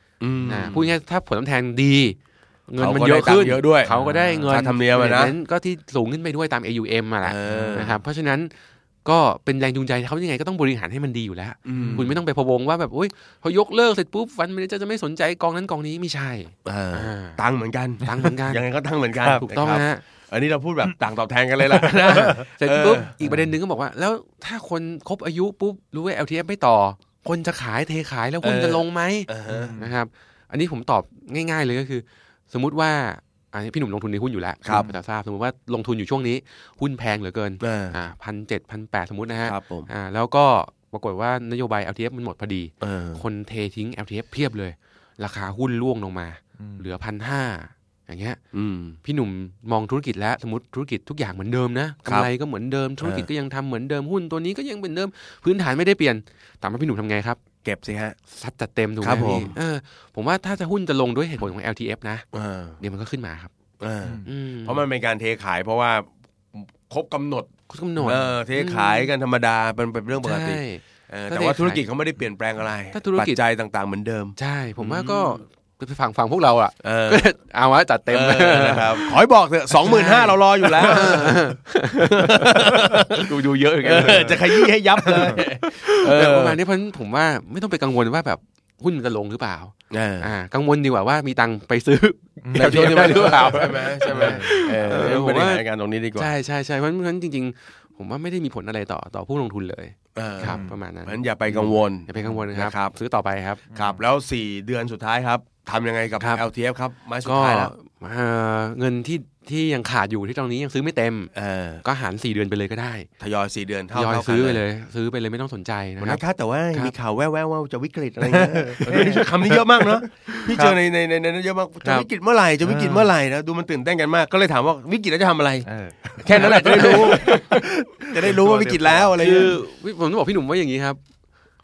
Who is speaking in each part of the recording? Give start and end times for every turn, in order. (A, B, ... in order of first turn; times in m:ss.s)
0:00.2-0:00.9 A
0:00.5-0:02.2 B
0:02.7-0:08.5 B
0:02.8-0:03.9 A
0:03.9-0:04.6 C
0:04.4-0:05.3 A
0:07.2-0:08.0 A
0:07.4-0:07.9 C
0:09.0-0:17.4 B
0:11.6-0:12.1 A
0:11.7-0:12.0 C
0:16.6-0:23.1 A
0:18.0-0:18.6 B
0:19.2-0:19.4 C
0:19.4-0:20.0 B
0:21.8-0:22.3 C
0:22.0-0:48.4 B
0:23.2-0:23.5 C
0:28.4-0:29.8 A
0:29.5-0:29.9 C
0:34.6-0:34.9 A
0:37.6-0:38.0 A
0:39.4-0:39.9 A
0:42.8-0:43.2 A
0:46.6-0:46.8 C
0:48.5-0:49.0 A
0:49.0-0:57.4 B
0:53.0-0:53.3 A
0:57.6-0:58.2 A
0:58.3-1:02.2 B
0:59.0-0:59.5 A
1:02.3-1:02.8 A
1:02.8-1:03.5 B
1:03.8-1:07.5 A
1:04.2-1:04.8 B
1:07.7-1:09.1 B
1:08.0-1:15.4 A
1:10.2-1:11.8 B
1:12.9-1:13.4 B
1:14.4-1:19.2 B
1:16.8-1:17.2 A
1:18.1-1:26.6 A
1:19.7-1:24.6 B
1:25.1-1:25.4 C
1:25.3-1:35.6 B
1:29.9-1:30.3 A
1:32.4-1:34.6 C
1:32.5-1:36.3 A
1:36.2-1:43.6 B
1:40.1-1:42.9 A
1:40.4-1:40.8 C
1:43.7-1:44.0 C
1:43.7-1:47.7 A
1:47.2-1:51.3 B
1:51.3-1:51.8 A
1:51.8-1:53.1 B
1:53.2-1:54.6 A
1:53.9-1:56.2 B
1:56.0-2:05.6 A
1:58.3-1:59.3 C
2:00.5-2:00.8 C
2:02.6-2:03.1 C
2:05.6-2:09.1 C
2:06.2-2:09.6 A
2:06.3-2:07.6 B
2:09.2-2:11.0 B